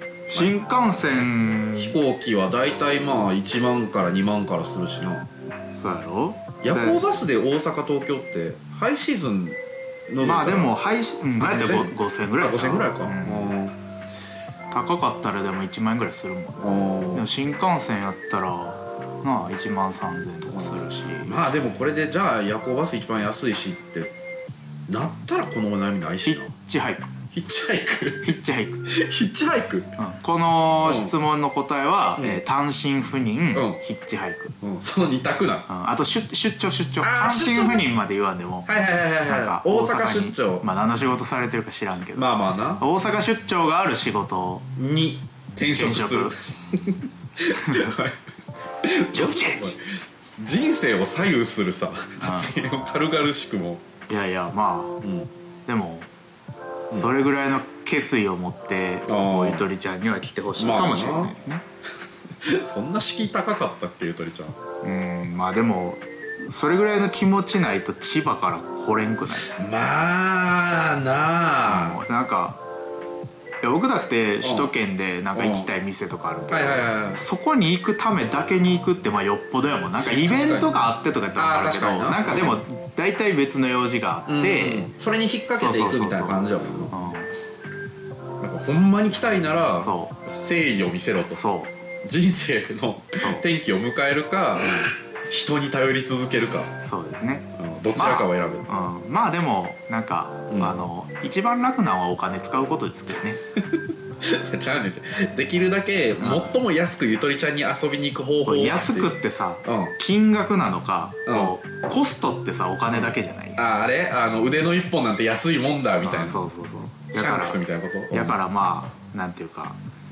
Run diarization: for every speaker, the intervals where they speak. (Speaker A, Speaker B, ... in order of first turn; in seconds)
Speaker A: 0.3-0.6, 1.8-5.3, 6.6-10.8, 11.4-13.8, 16.6-17.3, 20.5-24.1, 24.9-26.5, 27.3-29.9, 30.8-31.1, 33.5-33.8, 34.6-35.7, 37.0-37.9, 38.7-40.7, 42.2-42.8, 44.8-48.2, 48.8-49.8, 50.4-53.8, 55.0-55.3, 59.1-59.7, 60.6-61.4, 62.4-64.6, 69.5-72.0, 74.4-74.7, 75.4-75.7, 76.5-77.2, 80.0-80.8, 81.4-82.6, 84.3-86.9, 88.4-91.4, 92.0-96.7, 97.5-98.7, 100.5-100.8, 103.7-109.1, 109.7-109.9, 111.3-111.5, 112.9-116.4, 117.1-118.4
Speaker B: 0.3-2.0, 5.8-7.1, 10.2-13.5, 14.7-21.4, 26.2-27.1, 28.2-28.9, 30.0-34.6, 35.7-38.7, 39.3-44.7, 45.7-46.4, 47.6-47.9, 49.1-49.8, 52.2-52.5, 54.1-55.0, 55.7-56.1, 56.9-61.6, 64.8-69.5, 71.6-72.6, 73.6-84.9, 85.5-87.3, 89.8-90.2, 91.3-91.7, 93.2-93.5, 96.8-103.4, 106.2-106.5, 108.5-113.6, 116.0-119.8